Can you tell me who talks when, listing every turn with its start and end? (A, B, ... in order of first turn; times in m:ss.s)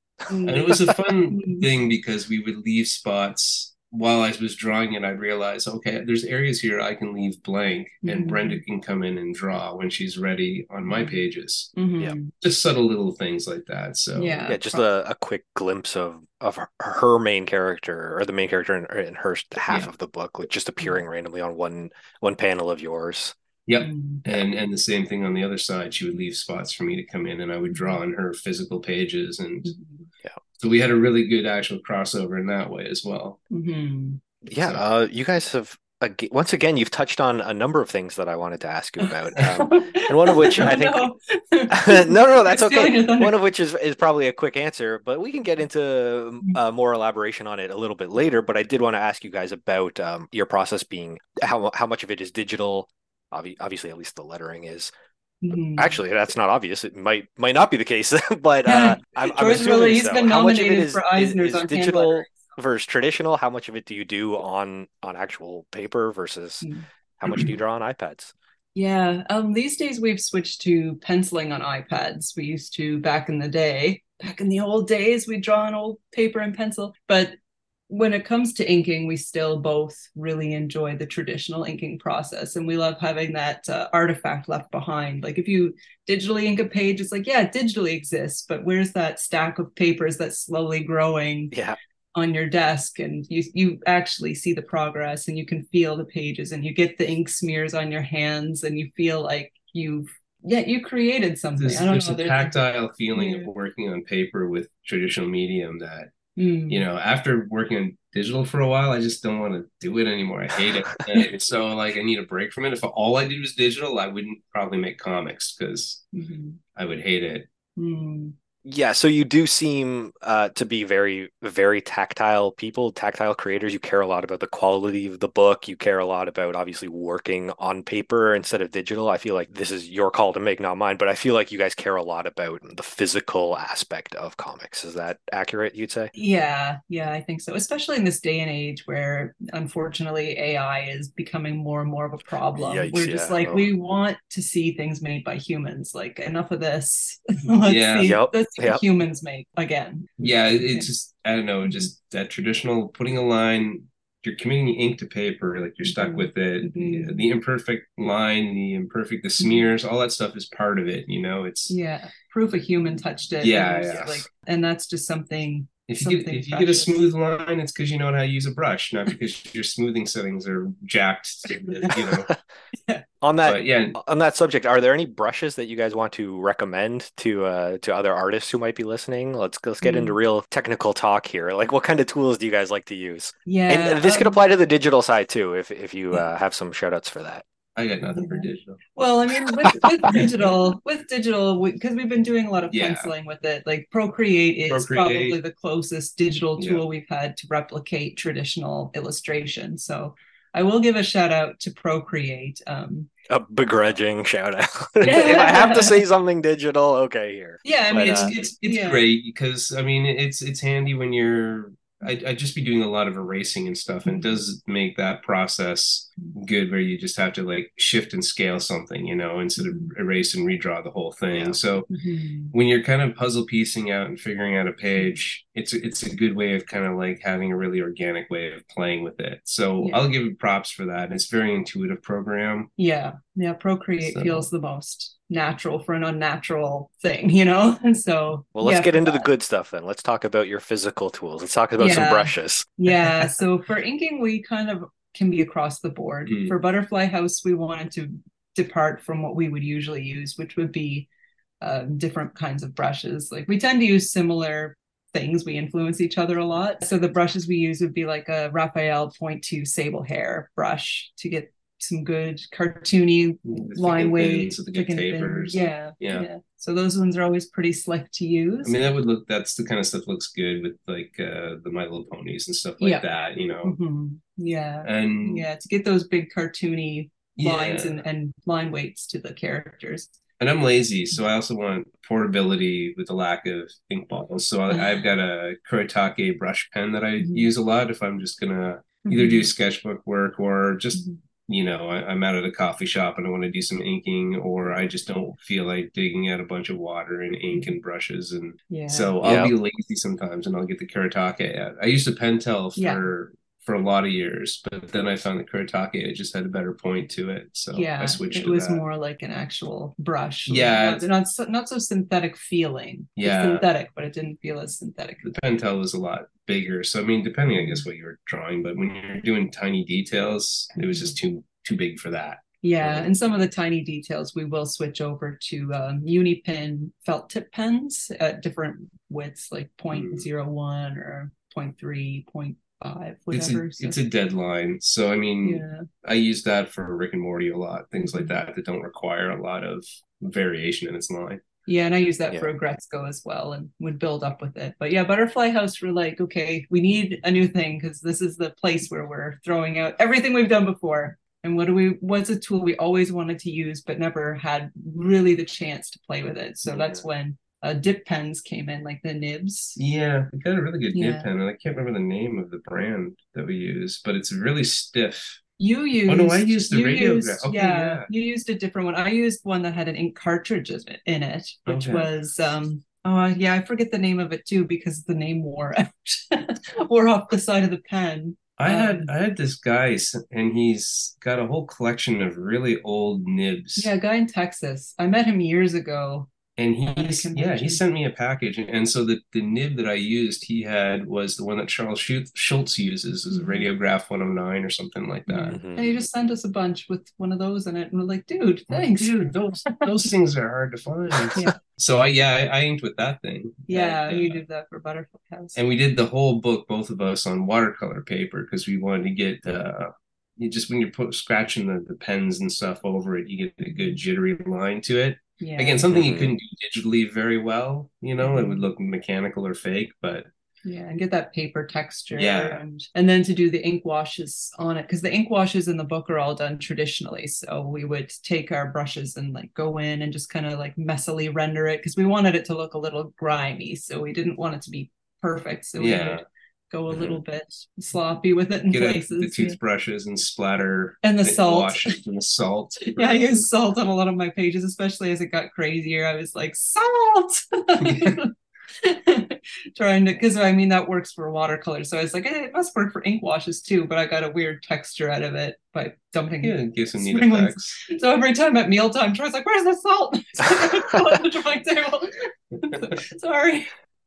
0:00.3-0:01.7 A
0:00.5-0:11.7 B
0:08.0-0:08.6 A
0:10.8-0:11.2 A
0:11.8-0:12.3 A
0:12.3-0:14.5 B
0:14.2-0:14.9 A
0:14.5-0:23.4 C
0:23.7-0:29.7 B
0:23.8-0:24.2 A
0:27.7-0:28.0 A
0:29.6-0:30.1 A
0:30.6-0:33.4 B
0:33.5-0:34.2 A
0:34.5-0:41.1 C
0:34.6-0:34.8 B
0:39.0-0:43.4 A
0:41.7-0:54.9 C
0:55.4-0:56.0 A
0:55.8-1:06.7 C
0:58.7-1:02.3 A
1:07.2-1:08.3 C
1:08.8-1:17.3 A
1:17.9-1:31.5 A
1:31.5-1:31.8 C
1:32.2-1:42.6 A
1:41.6-1:46.1 B
1:43.1-1:43.5 A
1:46.4-1:46.8 A
1:46.7-1:56.0 B
1:56.1-1:56.6 A
1:56.8-1:57.5 B
1:57.8-1:58.3 A
1:58.6-2:16.1 C
2:16.1-2:30.9 A
2:22.6-2:23.7 C
2:27.6-2:28.2 B
2:28.0-2:28.8 C
2:30.2-2:41.8 B
2:35.8-2:37.2 A
2:39.4-2:39.6 A
2:41.7-2:47.0 A
2:43.4-2:44.3 B
2:45.9-2:52.3 B
2:51.7-2:52.0 A
2:53.2-3:07.4 C
2:53.4-2:54.0 B
2:59.8-3:00.2 A
3:03.5-3:04.4 A
3:07.8-3:08.8 B
3:08.2-3:23.1 A
3:12.7-3:13.1 B
3:14.7-3:15.4 B
3:16.6-3:16.8 B
3:23.3-3:28.3 C
3:25.0-3:26.0 A
3:27.6-3:29.0 A
3:28.1-3:41.9 B
3:34.0-3:34.4 A
3:39.6-3:39.9 A
3:41.9-3:42.5 A
3:42.5-3:52.7 B
3:52.8-3:59.3 A
3:54.0-3:54.5 B
3:58.6-4:02.7 C
4:01.8-4:11.1 A
4:06.3-4:06.6 B
4:11.6-4:28.8 A
4:23.4-4:26.3 B
4:28.6-4:33.8 B
4:33.6-4:40.1 A
4:34.8-4:35.5 B
4:37.4-4:38.0 B
4:40.4-5:08.8 B
4:44.7-4:45.1 A
4:47.2-4:47.5 A
4:49.1-4:49.5 A
4:58.7-4:59.2 A
4:59.2-4:59.5 C
5:02.8-5:03.1 A
5:07.7-5:15.3 A
5:10.5-5:11.1 B
5:13.2-5:13.7 B
5:15.2-5:23.1 B
5:17.5-5:17.8 A
5:20.8-5:21.2 A
5:22.6-5:34.0 A
5:29.9-5:30.3 B
5:33.3-5:41.4 B
5:35.4-5:35.9 A
5:38.0-5:38.4 A
5:41.7-5:59.8 A
5:56.6-5:57.0 B
5:59.8-6:05.4 B
6:00.9-6:01.3 A
6:05.6-6:19.1 A
6:06.1-6:08.1 B
6:11.7-6:12.1 B
6:18.6-6:23.9 B
6:23.8-6:26.3 A
6:26.6-6:35.6 B
6:26.9-6:27.8 A
6:33.3-6:33.7 A
6:35.3-6:39.2 A
6:35.5-6:36.0 C
6:38.7-6:44.4 B
6:43.7-6:45.6 A
6:45.6-7:00.3 B
6:53.7-6:54.0 A
6:55.4-6:55.8 A
6:55.9-6:56.4 C
6:58.2-6:58.6 A
7:00.6-7:19.6 A
7:02.1-7:02.6 B
7:15.8-7:16.2 B
7:18.7-7:23.5 B
7:21.0-7:22.0 A
7:22.9-7:43.7 A
7:27.8-7:28.2 B
7:36.4-7:37.8 B